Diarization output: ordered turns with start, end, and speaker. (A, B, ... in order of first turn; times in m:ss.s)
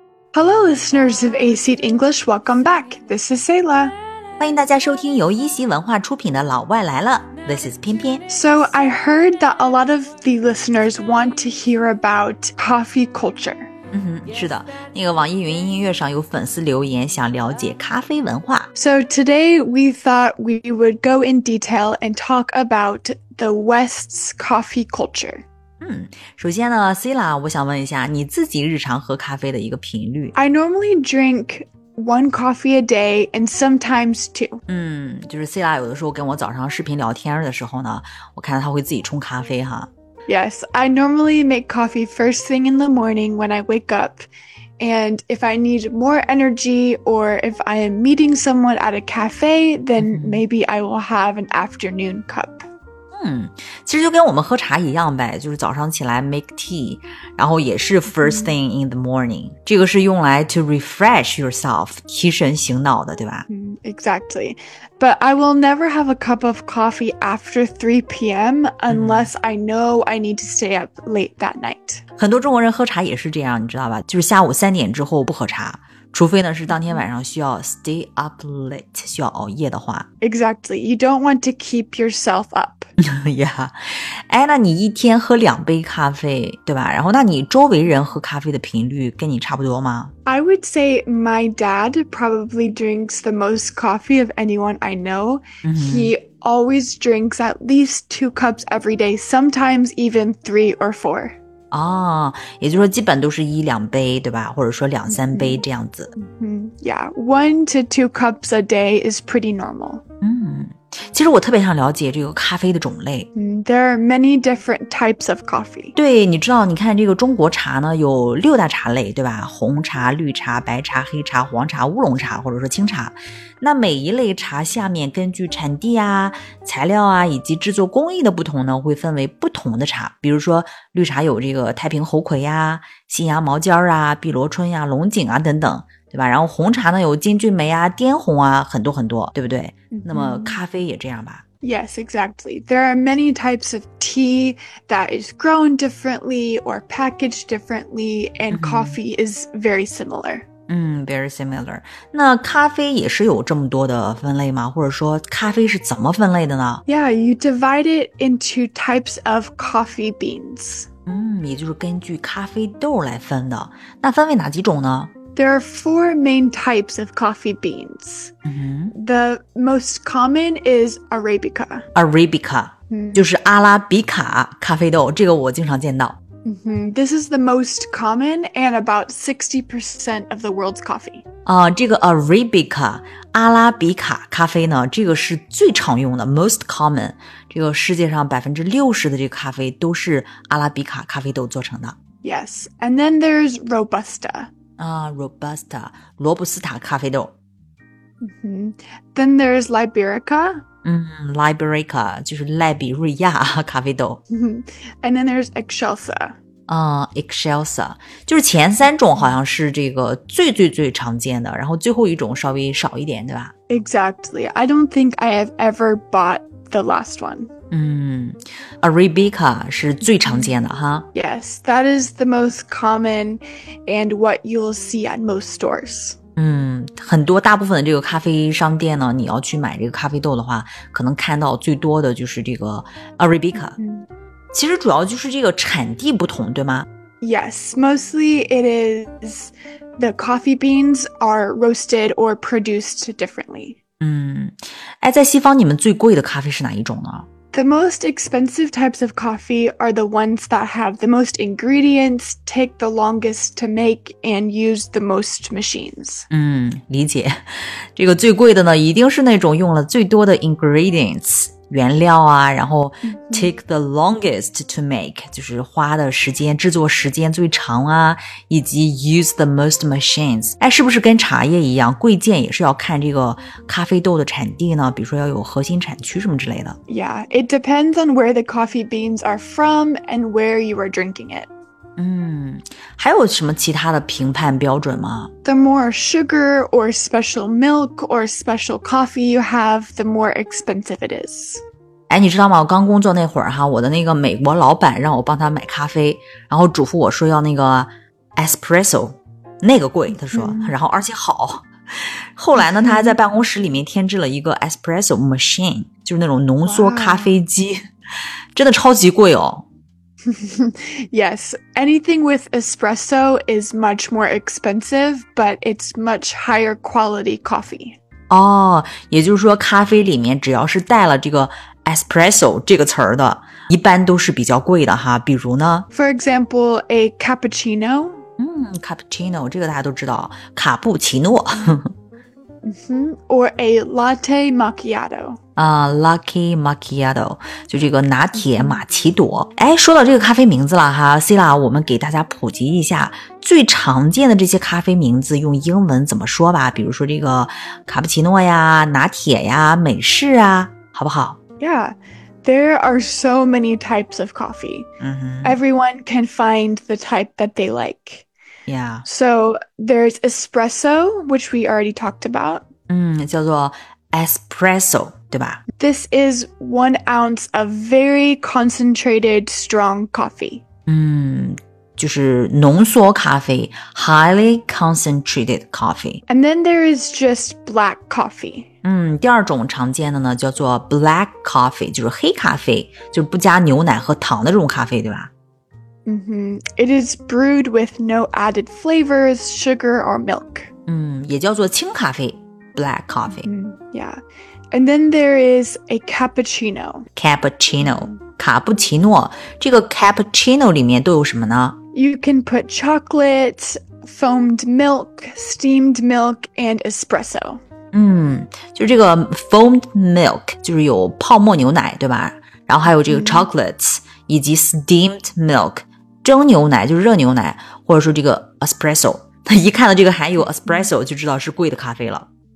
0:00.3-0:03.9 A
0:04.4-0:08.2 B
0:08.3-0:13.7 A
0:13.9-0:18.7 B
0:18.8-0:25.4 A
0:25.8-0:30.3 B
0:30.4-0:34.6 A
0:34.7-0:39.9 B
0:40.3-0:44.3 A
0:44.8-0:52.7 A
0:50.0-0:50.4 B
0:53.1-1:03.5 B
0:58.1-0:58.5 A
1:03.5-1:12.0 A
1:08.9-1:09.3 B
1:12.2-1:20.1 B
1:16.7-1:17.1 A
1:20.2-1:22.9 A
1:23.0-1:30.1 B
1:30.3-1:41.4 A
1:35.6-1:36.1 B
1:41.7-1:46.1 B
1:45.1-1:45.6 A
1:46.2-1:50.0 A
1:50.2-1:53.3 B
1:53.4-1:56.0 A
1:56.0-2:21.4 B
2:19.9-2:20.6 A
2:21.6-2:30.5 A
2:28.5-2:29.0 B
2:30.7-2:36.8 B
2:36.9-2:40.9 A
2:41.1-2:45.1 B
2:45.4-2:48.3 A
2:48.5-2:48.9 B
2:48.9-2:51.8 A
2:52.0-2:56.2 B
2:52.9-2:53.2 A
2:56.4-3:01.2 A
3:01.5-3:12.0 B
3:12.2-3:14.5 A
3:14.8-3:17.3 B
3:18.2-3:20.6 A
3:20.8-3:24.2 B
3:24.3-3:26.4 A
3:26.7-3:33.5 B
3:33.7-3:37.5 A
3:37.7-3:41.1 B
3:40.1-3:40.6 A
3:41.1-3:46.2 A
3:46.4-3:53.8 B
3:53.8-3:54.1 A
3:54.5-3:56.9 B
3:57.2-4:03.8 A
4:04.0-4:07.3 B
4:07.5-4:16.3 A
4:16.3-4:36.8 B
4:23.0-4:23.5 A
4:36.9-4:41.5 A
4:42.0-4:45.3 B
4:45.4-4:51.6 A
4:52.1-5:07.9 B
5:00.2-5:00.8 A
5:02.6-5:03.2 A
5:06.6-5:07.4 A
5:08.6-5:09.6 B
5:10.3-5:18.0 A
5:18.3-5:25.9 B
5:25.9-5:28.2 A
5:28.4-5:31.9 B
5:32.6-5:35.4 A
5:35.6-5:51.4 B
5:38.4-5:38.8 A
5:51.6-5:54.9 A
5:55.0-5:55.6 B
5:55.4-5:58.3 A
5:58.7-5:59.0 B
5:59.0-6:02.7 A
6:02.9-6:05.6 B
6:05.8-6:10.6 A
6:10.9-6:16.2 B
6:16.3-6:18.7 A
6:18.8-6:25.3 B
6:26.0-6:30.7 A
6:30.9-6:33.5 B
6:33.4-6:37.1 A
6:37.2-6:41.8 B
6:37.8-6:38.2 A
6:41.9-6:47.6 A
6:47.9-7:02.3 B
6:52.9-6:53.5 A